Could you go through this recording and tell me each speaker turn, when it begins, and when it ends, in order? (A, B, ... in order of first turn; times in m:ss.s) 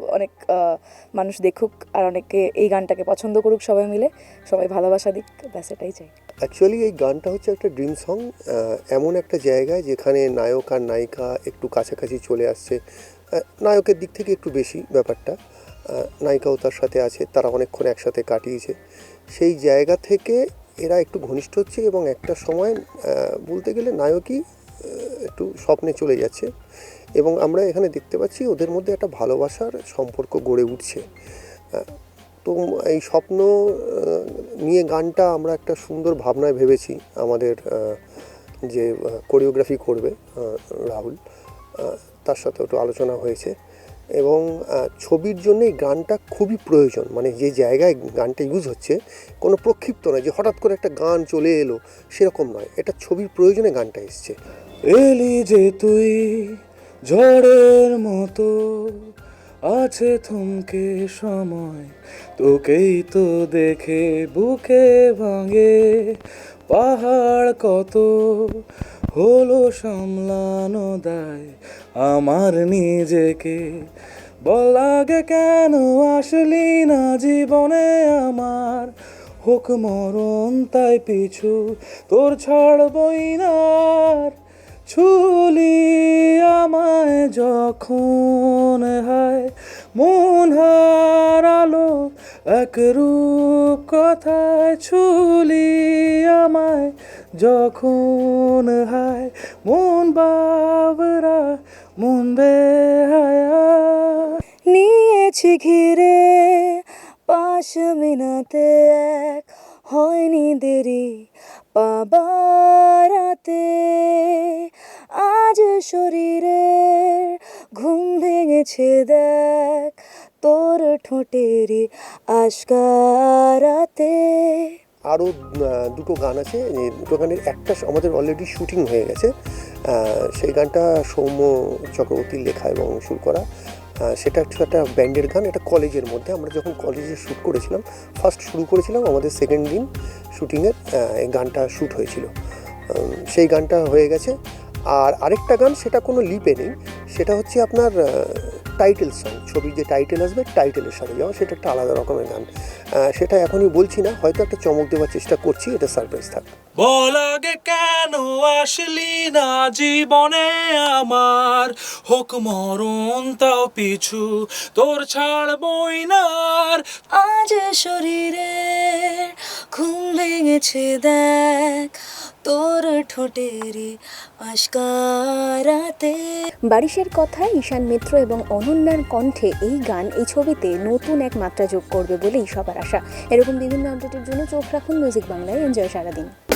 0:00.1-0:06.1 A
0:06.4-0:12.8 B
0:13.4-0:15.4 B
0:15.9-0:18.7 B
0:19.3-0:26.5 B
0:27.2-0:31.0 B
0:32.4-0:38.0 B
0:38.6-0:41.2 B
0:41.8-0:43.5 B
0:44.2-0:54.4 B
0:54.9-0:56.5 C
0:57.1-0:59.0 C
0:59.7-1:05.8 C
1:06.7-1:08.5 C
1:09.2-1:13.6 C
1:14.4-1:18.9 C
1:19.4-1:24.3 C
1:24.9-1:44.4 C
1:44.7-2:04.8 D
2:05.1-2:09.3 B
2:09.9-2:13.4 B
2:14.1-2:22.3 B
2:22.9-2:24.3 B
2:24.9-2:32.5 B
2:33.0-2:36.4 B
2:36.8-2:46.9 C
2:47.1-2:56.4 D
2:56.7-3:06.3 E